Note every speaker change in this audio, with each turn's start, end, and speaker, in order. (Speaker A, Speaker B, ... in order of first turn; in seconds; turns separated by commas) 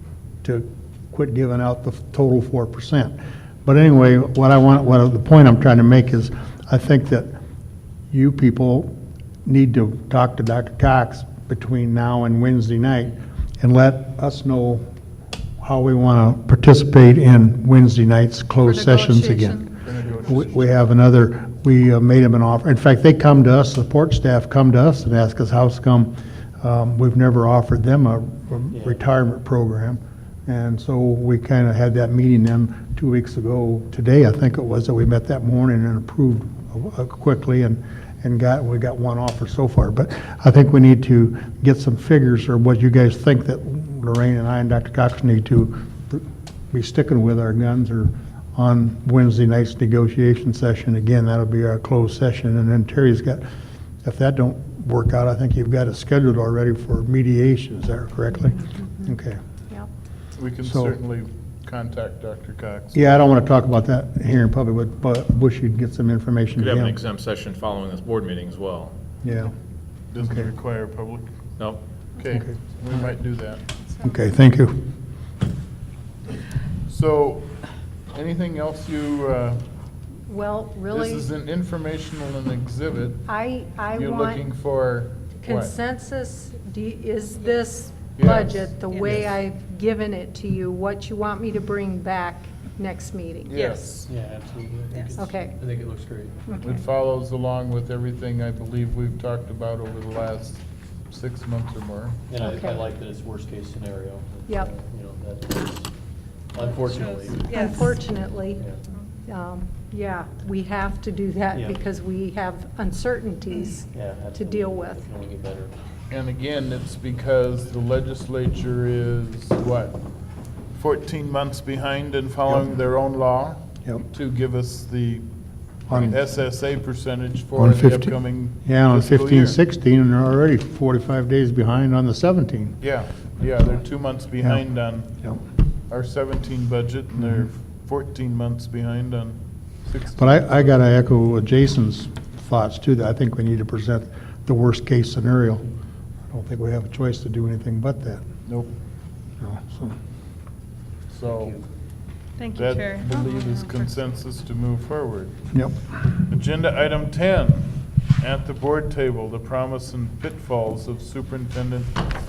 Speaker A: 0.4-7.3, Speaker A: 8.1-8.9, Speaker A: 9.5-14.8, Speaker A: 15.6-19.7, Speaker B: 18.6-19.7, Speaker C: 19.8-20.7, Speaker A: 20.2-53.4, Speaker B: 20.3-20.7, Speaker D: 28.7-29.0, Speaker A: 54.0-59.4, Speaker E: 58.8-59.1, Speaker C: 60.4-63.1, Speaker A: 60.6-61.0, Speaker A: 62.9-67.0, Speaker F: 66.6-69.0, Speaker A: 69.2-69.5, Speaker C: 70.1-71.3, Speaker A: 70.2-70.5, Speaker C: 72.2-73.7, Speaker A: 74.0-74.8, Speaker C: 76.9-77.5, Speaker C: 78.1-79.6, Speaker E: 80.3-81.3, Speaker C: 80.9-83.2, Speaker E: 83.3-84.5, Speaker C: 84.0-85.7, Speaker E: 85.4-94.1, Speaker C: 88.2-89.3, Speaker C: 93.5-94.0, Speaker D: 94.1-96.4, Speaker B: 94.9-95.2, Speaker E: 95.2-95.6, Speaker E: 96.5-96.8, Speaker C: 96.6-102.2, Speaker D: 102.3-105.9, Speaker E: 102.4-102.8, Speaker D: 106.5-107.5, Speaker B: 106.8-108.0, Speaker E: 107.5-108.7, Speaker E: 109.2-115.1, Speaker D: 111.5-111.8, Speaker D: 113.9-115.7, Speaker C: 116.1-120.0, Speaker C: 120.8-125.3, Speaker A: 125.9-126.2, Speaker C: 125.9-129.6, Speaker A: 127.5-132.8, Speaker C: 132.8-135.1, Speaker C: 135.9-140.4, Speaker A: 137.2-137.5, Speaker A: 140.2-145.7, Speaker A: 146.3-148.2, Speaker C: 148.5-148.7, Speaker A: 149.4-150.0, Speaker C: 151.1-151.6, Speaker D: 151.3-151.7, Speaker B: 152.4-153.9, Speaker C: 152.5-155.4, Speaker A: 155.5-155.8, Speaker C: 156.3-162.0